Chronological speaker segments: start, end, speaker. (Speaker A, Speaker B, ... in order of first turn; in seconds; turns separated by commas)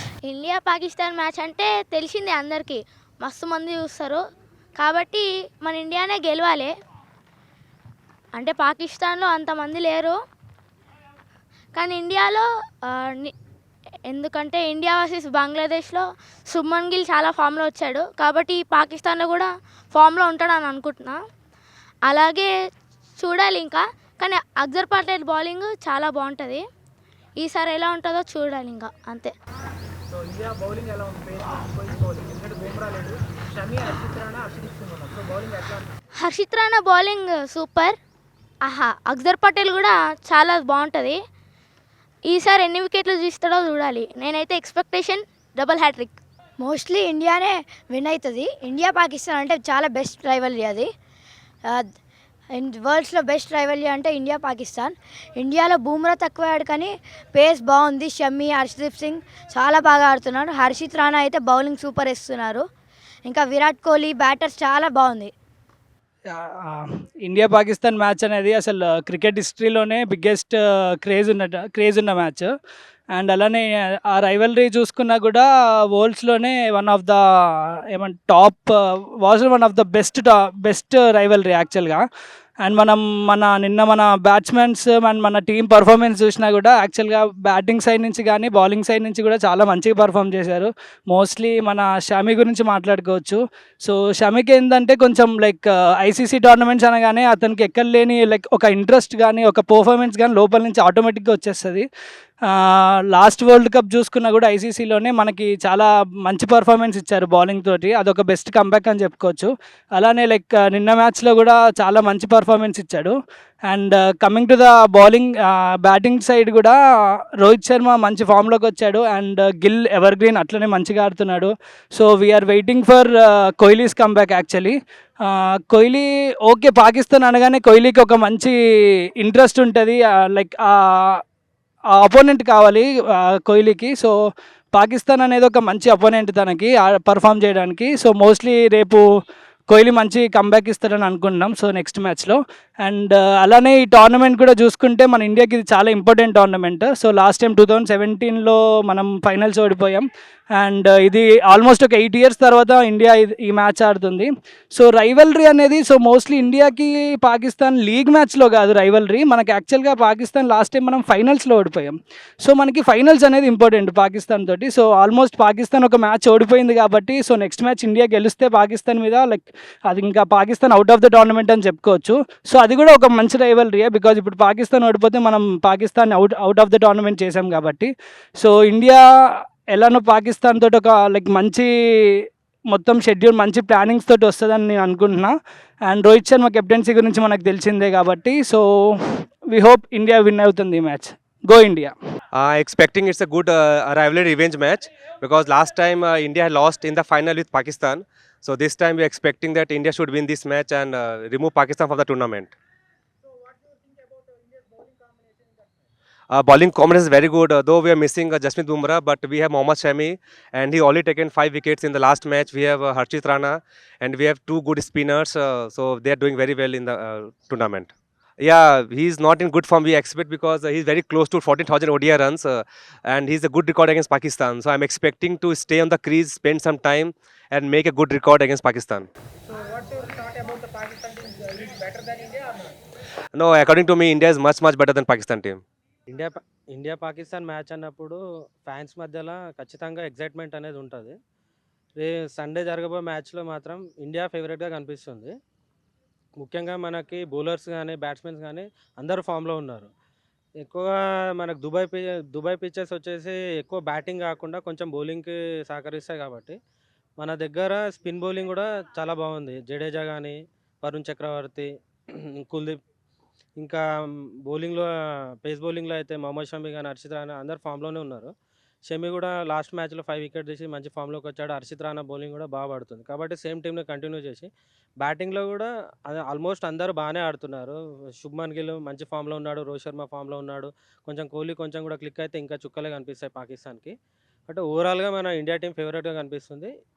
Speaker A: 0.3-4.2, Speaker A: 4.8-6.7, Speaker A: 8.3-10.2, Speaker A: 11.8-13.3, Speaker A: 14.1-21.2, Speaker A: 22.1-22.5, Speaker A: 23.2-26.6, Speaker A: 27.4-29.3, Speaker B: 30.4-35.8, Speaker A: 36.2-38.0, Speaker A: 38.6-41.2, Speaker A: 42.3-46.2, Speaker C: 46.6-50.9, Speaker C: 52.5-62.6, Speaker C: 63.2-65.3, Speaker D: 66.3-72.5, Speaker D: 73.1-82.0, Speaker D: 82.6-101.9, Speaker D: 102.4-113.1, Speaker D: 113.7-131.2, Speaker D: 131.9-134.1, Speaker D: 134.7-139.1, Speaker D: 139.7-179.0, Speaker D: 179.7-191.9, Speaker E: 192.3-202.5, Speaker B: 203.7-205.6, Speaker E: 206.3-229.1, Speaker B: 229.8-232.4, Speaker E: 233.3-235.6, Speaker F: 236.1-241.2, Speaker F: 242.0-245.3, Speaker F: 246.4-249.9, Speaker F: 250.6-256.6, Speaker F: 257.2-262.8, Speaker F: 264.4-264.9, Speaker F: 265.4-268.3, Speaker F: 268.9-274.5, Speaker F: 275.0-283.9, Speaker F: 284.5-286.7